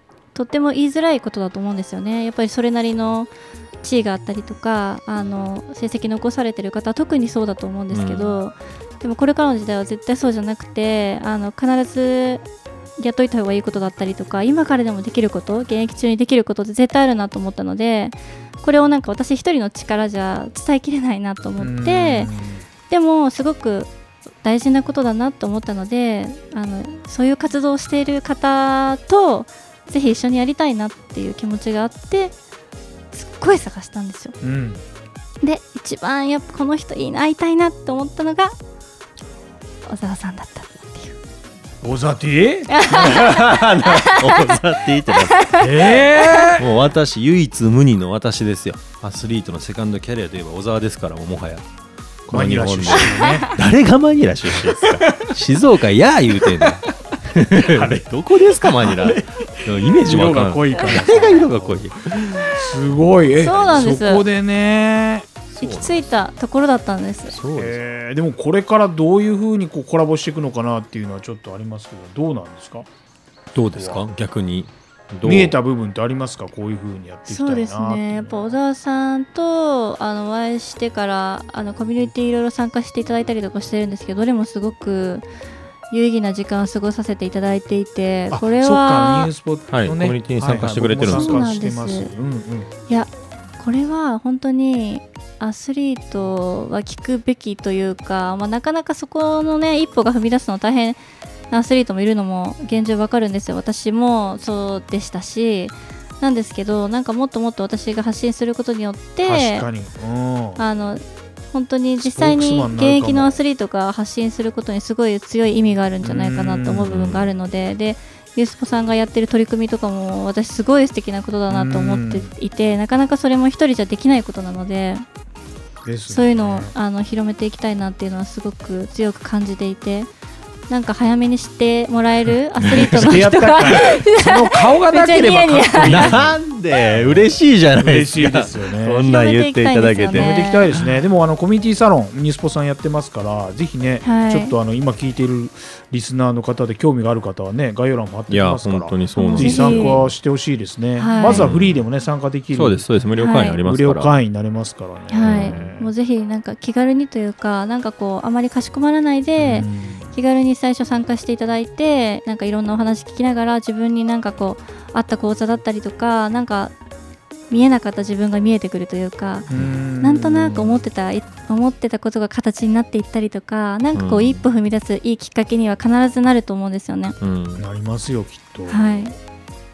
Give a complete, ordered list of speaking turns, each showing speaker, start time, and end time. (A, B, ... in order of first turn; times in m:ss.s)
0:00.3-0:12.5 A
0:07.9-0:08.4 B
0:13.0-0:22.3 A
0:21.6-0:22.7 C
0:22.9-0:23.9 A
0:24.4-0:32.3 A
0:33.1-0:34.4 A
0:34.4-0:34.8 C
0:35.4-0:38.5 A
0:39.8-0:41.2 A
0:41.8-0:43.2 C
0:42.7-0:43.3 A
0:42.9-0:45.5 B
0:45.3-0:45.7 A
0:45.6-0:46.7 C
0:46.6-0:51.6 B
0:52.3-1:03.9 B
0:52.3-0:53.5 C
0:54.8-0:55.3 C
0:56.4-0:56.9 C
0:57.6-0:58.1 C
0:58.6-1:01.9 C
1:02.4-1:05.3 C
1:03.4-1:04.2 A
1:05.5-1:06.1 B
1:05.6-1:07.4 A
1:07.3-1:07.8 B
1:07.6-1:12.9 C
1:13.5-1:15.6 B
1:13.8-1:14.1 C
1:15.2-1:18.6 C
1:17.3-1:25.3 A
1:25.9-1:29.3 A
1:28.3-1:32.7 C
1:29.7-1:31.5 B
1:31.1-1:32.1 A
1:32.9-1:49.7 A
1:49.2-1:50.6 C
1:50.6-2:05.0 A
1:52.0-1:53.4 C
1:56.0-1:57.2 C
1:57.0-1:57.3 B
2:01.5-2:02.4 C
2:05.8-2:06.7 C
2:06.1-2:10.1 A
2:10.7-2:16.1 A
2:12.7-2:19.1 C
2:15.8-2:20.9 B
2:19.0-2:20.7 A
2:20.1-2:35.9 C
2:24.0-2:24.6 A
2:28.3-2:30.2 B
2:29.2-2:30.0 A
2:31.0-2:31.5 A
2:31.3-2:31.8 B
2:32.5-2:34.2 B
2:33.2-2:33.6 A
2:35.1-2:46.7 A
2:35.2-2:35.7 B
2:39.4-2:40.1 C
2:47.5-2:57.2 A
2:49.5-2:50.8 C
2:49.5-2:49.8 B
2:53.9-2:54.4 B
2:57.2-2:57.6 B
2:57.6-2:59.1 C
2:58.7-2:59.2 A